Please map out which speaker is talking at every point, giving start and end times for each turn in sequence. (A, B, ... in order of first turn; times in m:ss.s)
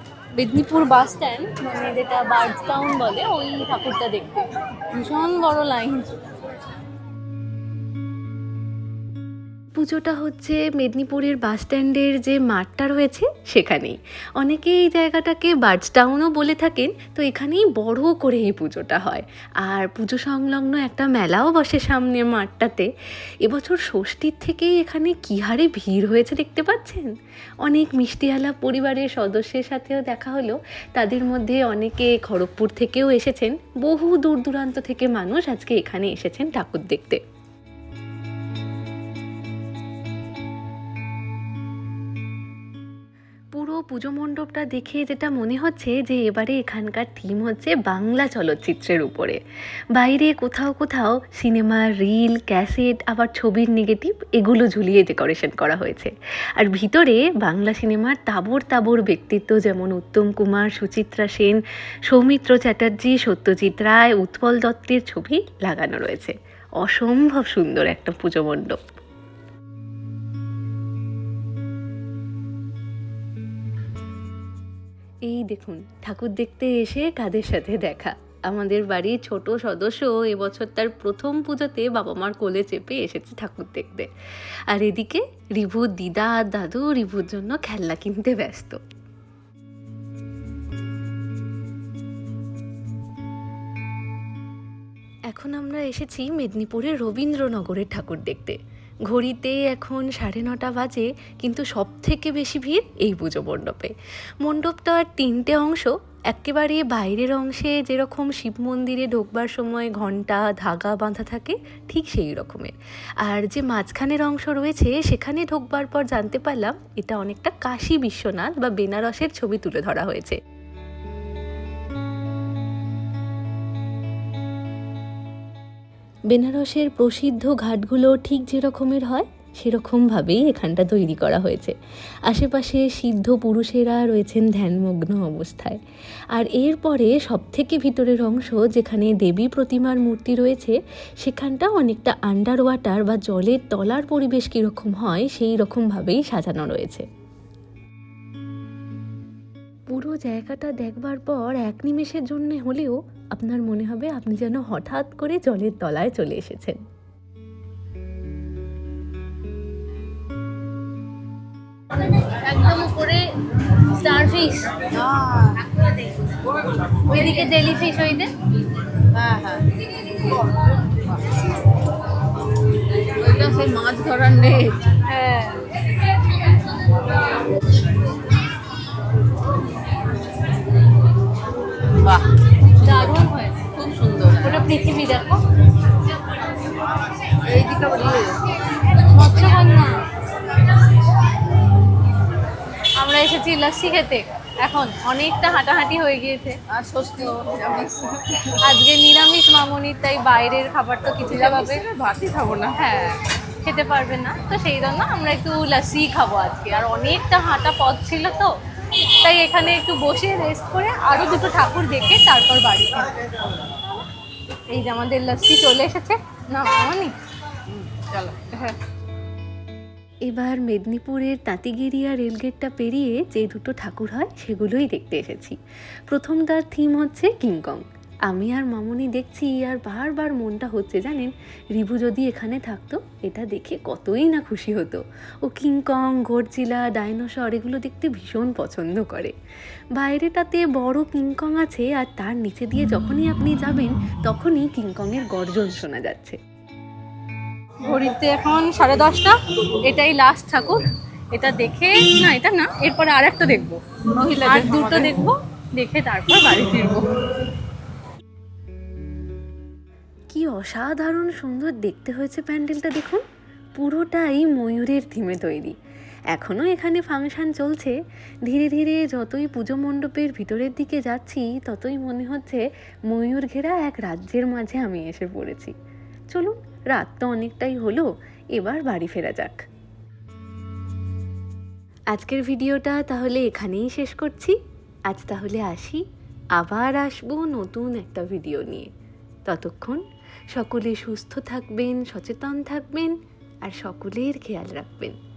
0:00.4-0:06.2 A
0:09.8-0:22.9 B
0:23.4-0:27.1 B
0:27.6-0:37.2 B
0:43.5-0:49.4 B
0:50.0-1:08.8 B
1:15.3-1:24.1 B
1:24.7-1:28.8 B
1:35.3-1:38.6 B
1:39.1-2:00.4 B
2:06.3-2:11.8 B
2:12.3-2:15.8 B
2:16.3-2:27.1 B
2:29.9-2:36.8 B
2:42.2-2:43.3 A
2:43.8-2:44.9 A
2:44.9-2:45.6 C
2:47.0-2:48.3 A
2:49.1-2:49.6 C
2:50.3-2:51.2 C
2:53.1-2:54.9 C
2:55.0-2:55.7 A
3:01.9-3:03.2 C
3:02.8-3:03.6 A
3:03.8-3:04.7 C
3:04.4-3:05.4 A
3:07.3-3:08.4 C
3:09.1-3:09.9 A
3:13.0-3:16.6 A
3:16.7-3:18.6 C
3:18.5-3:21.8 A
3:21.3-3:22.8 C
3:22.8-3:28.5 A
3:29.2-3:33.3 A
3:34.7-3:37.1 A
3:37.7-3:38.0 C
3:38.0-3:38.8 A
3:40.3-3:45.6 B
3:46.1-3:59.3 B
4:00.0-4:06.4 B
4:07.8-4:13.8 A
4:14.1-4:15.3 C
4:14.4-4:17.1 A
4:20.3-4:23.2 B
4:23.8-4:25.8 B
4:26.3-4:35.7 B
4:36.3-4:39.6 B
4:42.1-4:44.6 B
4:45.1-4:46.0 B
4:46.6-4:48.9 B
4:49.5-4:55.2 B